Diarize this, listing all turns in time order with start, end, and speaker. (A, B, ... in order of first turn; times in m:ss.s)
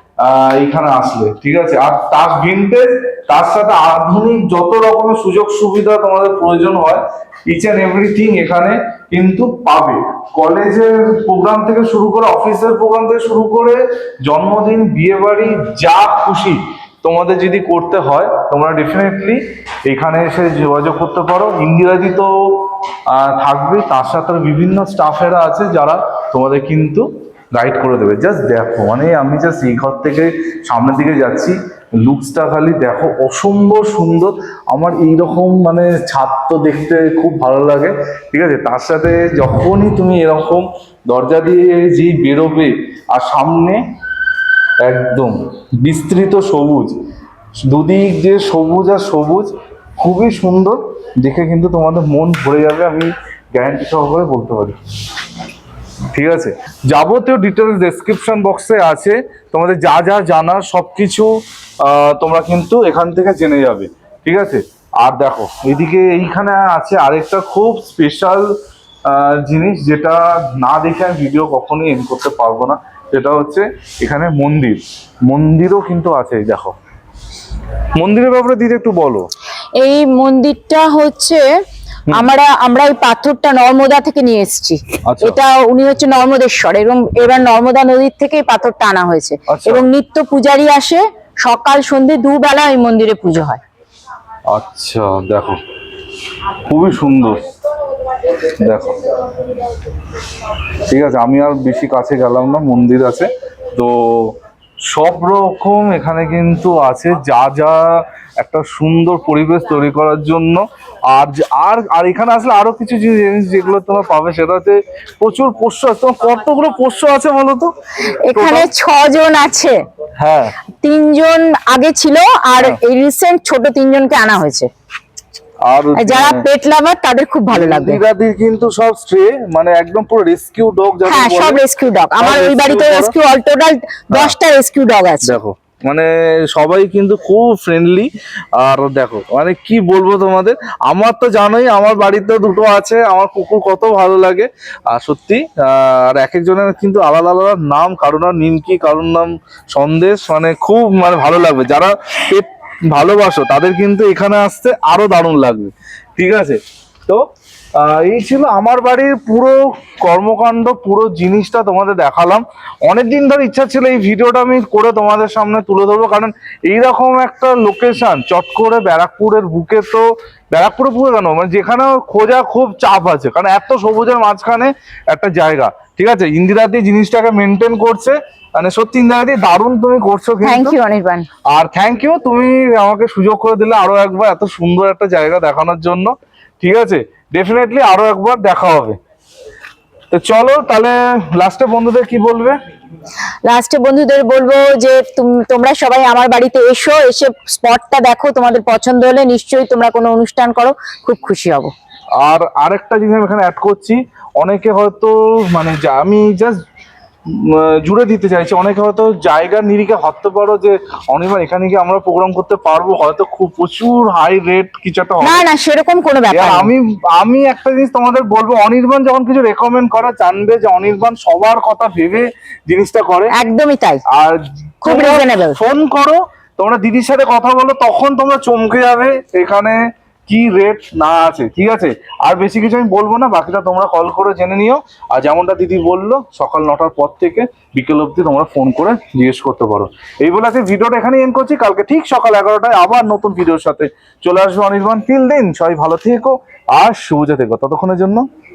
0:00.2-0:43.8 A
0:44.8-0:47.0 A
0:47.6-0:54.8 A
0:56.1-1:01.3 A
1:01.8-1:08.5 A
1:09.1-1:16.7 A
1:18.0-1:19.3 A
1:19.8-1:21.4 B
1:22.1-1:33.6 B
1:25.0-1:25.4 A
1:29.5-1:29.8 A
1:34.5-1:35.6 A
1:36.6-1:37.4 A
1:38.3-1:39.3 A
1:40.8-1:44.3 A
1:44.9-1:57.7 A
1:58.2-1:59.8 B
1:58.3-1:58.6 A
2:00.2-2:00.5 A
2:00.8-2:04.7 B
2:05.6-2:06.4 A
2:06.0-2:08.0 B
2:07.5-2:11.6 A
2:11.0-2:15.4 B
2:12.2-2:13.1 A
2:15.2-2:37.2 A
2:37.8-3:00.7 A
3:00.4-3:01.3 B
3:01.5-3:09.0 A
3:10.1-3:12.6 A
3:13.4-3:21.7 B
3:22.2-3:26.6 A
3:27.3-3:35.4 A
3:35.2-3:36.7 B
3:36.3-3:43.3 A
3:43.3-3:44.0 B
3:44.1-4:08.2 A
3:44.8-3:45.6 B